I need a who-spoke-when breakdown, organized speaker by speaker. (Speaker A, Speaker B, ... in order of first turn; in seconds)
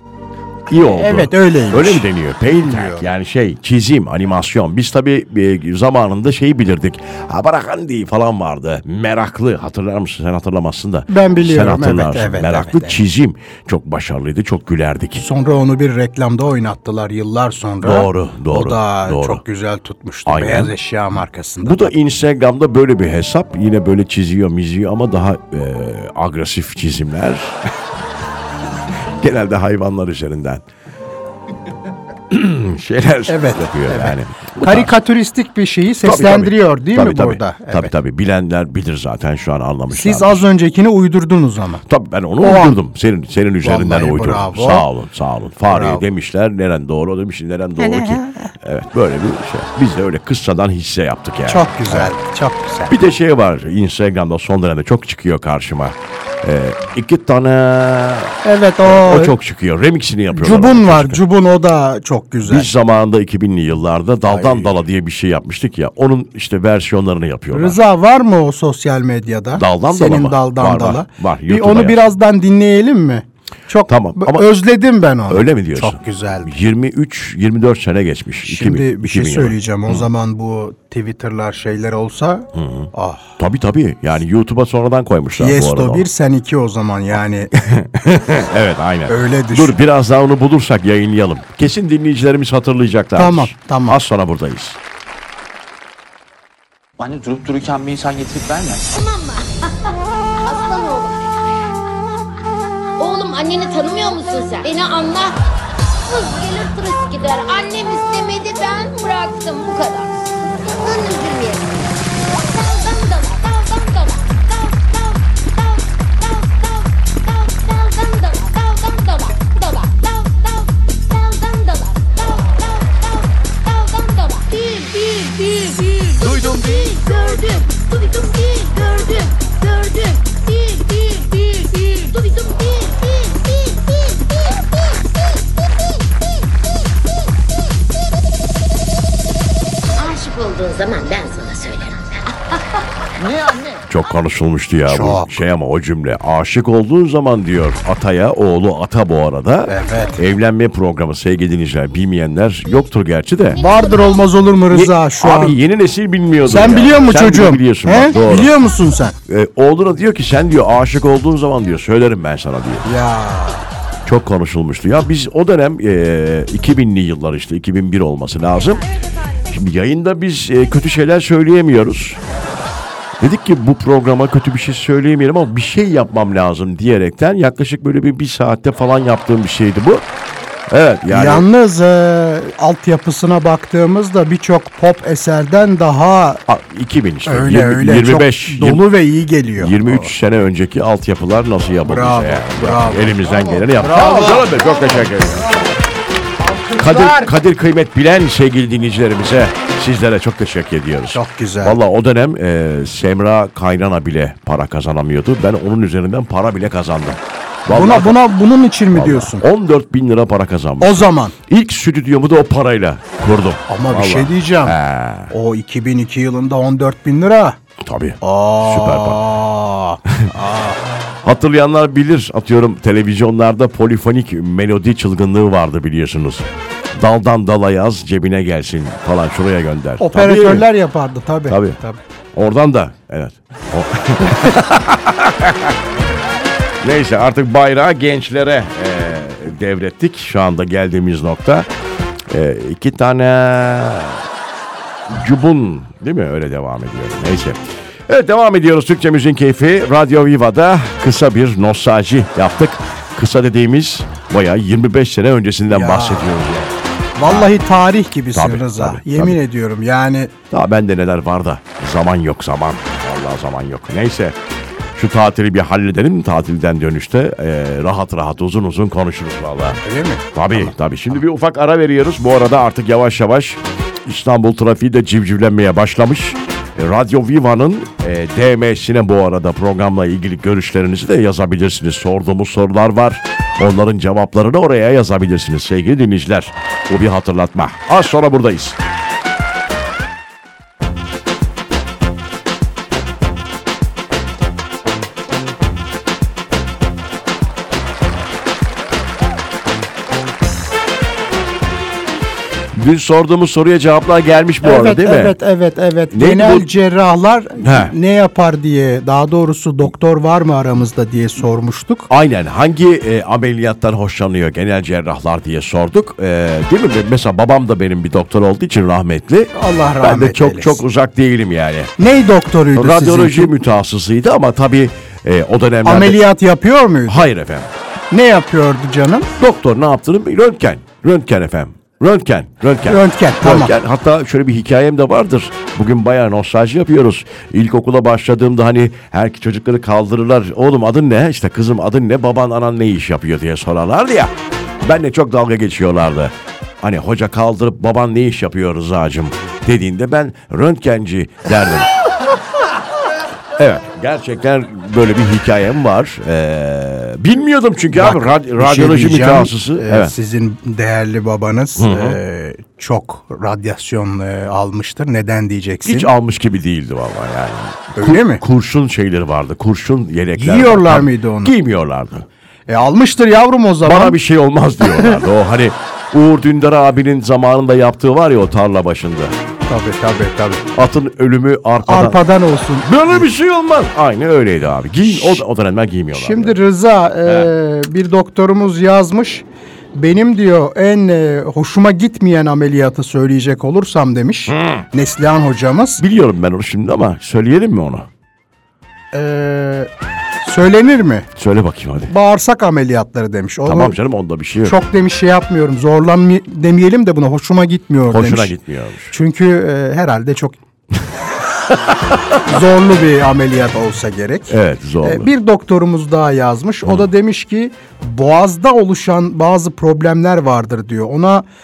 Speaker A: 0.7-15.2, 17.8-19.4, 20.3-20.7, 21.6-27.6, 28.9-30.6, 32.3-35.0, 36.0-40.5, 41.9-52.1, 52.9-61.2, 62.5-67.8, 69.5-72.0, 73.9-74.5, 75.3-80.1, 82.5-86.1, 87.5-94.8, 143.9-153.6, 154.7-158.6, 159.3-162.9, 164.1-172.2, 173.2-180.0, 180.7-181.5, 186.5-188.9, 189.6-195.8, 196.8-208.2, 208.9-215.3, 217.8-219.2, 221.2-230.7, 231.5-231.8, 232.3-235.8, 236.8-241.7, 242.3-244.2, 245.1-257.5, 258.3-259.4, 260.5-264.4, 264.9-269.8, 270.3-288.8, 302.7-305.4, 306.1-306.7, 307.6-307.9, 312.1-321.9, 322.7-326.2, 327.1-327.7, 329.4-351.9, 353.6-360.1, 361.8-362.2, 365.9-372.3, 373.8-379.3, 380.7-382.2, 382.8-386.6, 394.5-394.9, 396.0-398.1, 401.4-402.1, 403.7-404.8, 408.1-409.1, 411.7-412.4, 414.5-415.3
Speaker B: 0.7-2.1, 2.6-3.1, 11.1-13.0, 15.2-21.9, 33.3-37.9, 39.9-41.8, 42.4-42.8, 43.6-44.9, 45.7-46.0, 51.5-52.9, 58.4-59.4, 60.3-62.7, 64.3-64.7, 67.5-76.5, 78.5-83.4, 85.4-87.5, 89.1-89.8, 93.2-94.0, 144.9-145.4, 149.7-150.2, 153.6-155.6, 156.4-159.2, 162.8-163.7, 181.1-186.4, 187.3-190.1, 191.8-195.1, 196.4-197.3, 201.1-201.8, 207.7-209.4, 210.8-211.3, 213.7-214.8, 215.3-217.6, 218.2-220.8, 230.0-232.0, 255.7-256.3, 257.2-260.3, 269.8-270.7, 304.6-312.1, 319.5-320.8, 322.0-323.5, 325.8-327.2, 328.1-329.3, 332.9-333.7, 357.9-366.1, 368.0-368.4, 370.4-371.5, 372.7-374.2, 374.8-375.2, 379.7-380.7, 381.9-383.2, 386.1-396.0, 399.1-399.9, 400.4-401.3, 402.1-404.0, 404.6-408.6, 409.1-410.6, 412.4-421.5
Speaker C: 97.0-98.9, 143.2-143.8
Speaker D: 98.9-101.5, 103.0-105.4, 106.1-134.6, 140.0-142.3, 153.6-154.2